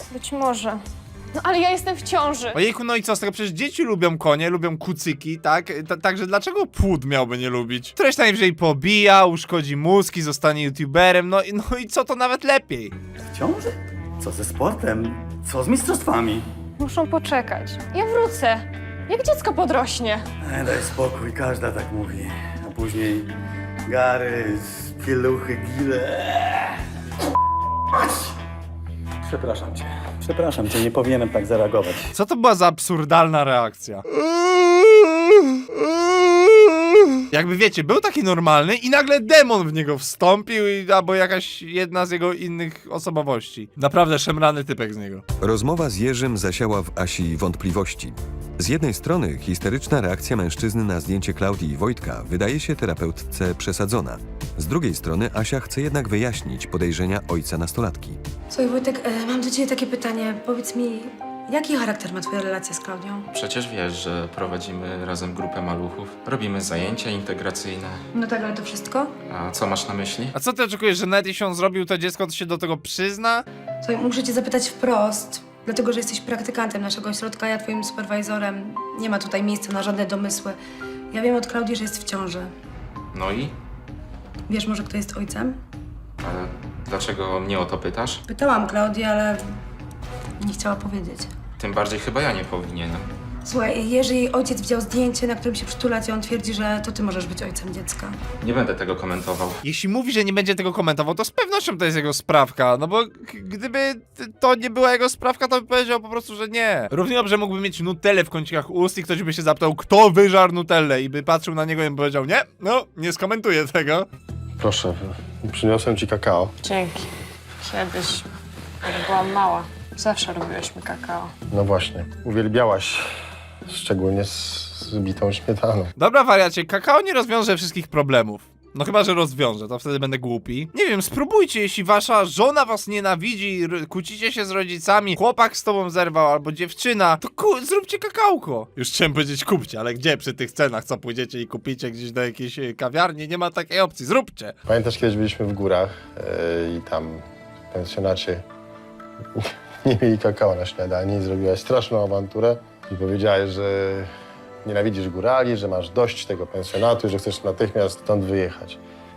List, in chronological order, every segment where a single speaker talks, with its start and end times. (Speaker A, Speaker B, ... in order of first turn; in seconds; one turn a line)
Speaker A: 0.1-0.8
Speaker A: 1.4-2.6
Speaker B: 2.5-12.9
Speaker C: 13.3-16.5
Speaker A: 16.8-20.3
Speaker C: 20.4-23.3
Speaker C: 23.9-26.8
Speaker C: 29.2-32.1
Speaker B: 32.1-34.0
Speaker B: 37.3-45.2
Speaker D: 45.4-58.2
Speaker E: 58.5-63.3
Speaker F: 63.3-68.0
Speaker E: 68.1-69.1
Speaker F: 69.3-70.3
Speaker B: 70.3-73.5
Speaker E: 73.8-80.6
Speaker E: 81.1-82.5
Speaker F: 83.1-83.5
Speaker E: 84.5-85.6
Speaker F: 86.2-88.2
Speaker E: 88.3-89.5
Speaker E: 90.4-91.3
Speaker F: 91.6-93.1
Speaker E: 93.5-98.2
Speaker F: 98.4-99.6
Speaker B: 99.6-114.1
Speaker G: 114.6-116.5
Speaker A: 116.6-117.1
Speaker A: 117.6-118.3
Speaker A: 118.8-121.3
Speaker G: 121.5-123.1
Speaker G: 123.7-125.9
Speaker B: 126.0-144.6
Speaker G: 144.7-148.4
Speaker G: 149.3-154.1
Speaker G: 154.6-158.8